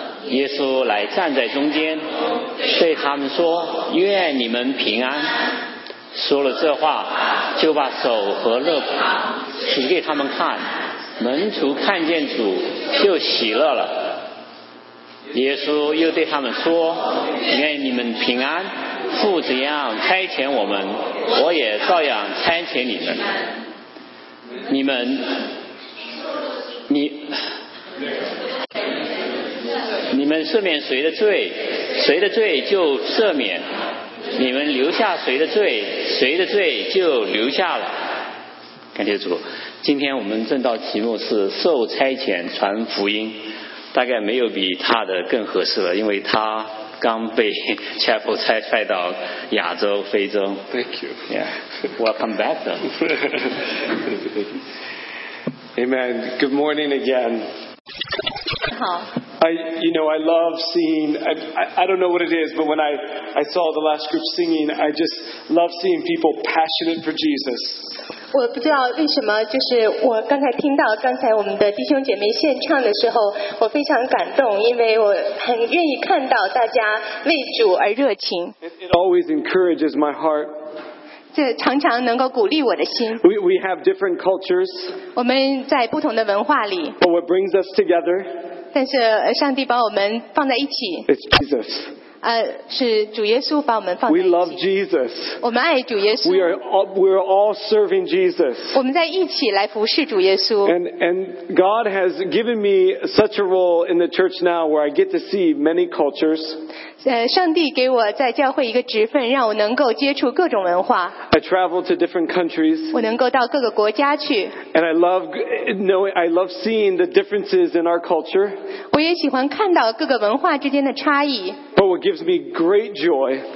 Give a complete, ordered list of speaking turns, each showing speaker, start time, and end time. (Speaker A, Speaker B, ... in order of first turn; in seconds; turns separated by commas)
Speaker A: 0.3-2.0, Speaker A: 2.6-5.4, Speaker A: 6.1-14.2, Speaker A: 15.3-23.3, Speaker A: 24.7-25.4, Speaker A: 26.9-27.4, Speaker A: 30.1-33.7, Speaker A: 34.3-38.1, Speaker A: 38.9-50.7, Speaker B: 50.7-51.2, Speaker A: 51.3-53.0, Speaker B: 54.0-54.4, Speaker B: 55.8-57.5, Speaker C: 58.7-59.0, Speaker B: 59.4-67.9, Speaker C: 68.3-78.5, Speaker B: 78.6-80.5, Speaker C: 81.3-83.2, Speaker B: 83.2-85.0, Speaker C: 85.1-87.0, Speaker B: 87.0-88.3, Speaker C: 88.7-91.1, Speaker B: 91.1-91.9, Speaker C: 92.2-94.6, Speaker B: 94.1-95.4, Speaker C: 95.4-96.6, Speaker B: 96.2-98.8, Speaker C: 98.7-100.7, Speaker B: 100.6-106.6, Speaker C: 107.0-111.2, Speaker B: 111.3-112.9, Speaker C: 112.9-114.6, Speaker B: 114.7-118.6, Speaker C: 118.9-121.6, Speaker B: 121.7-123.5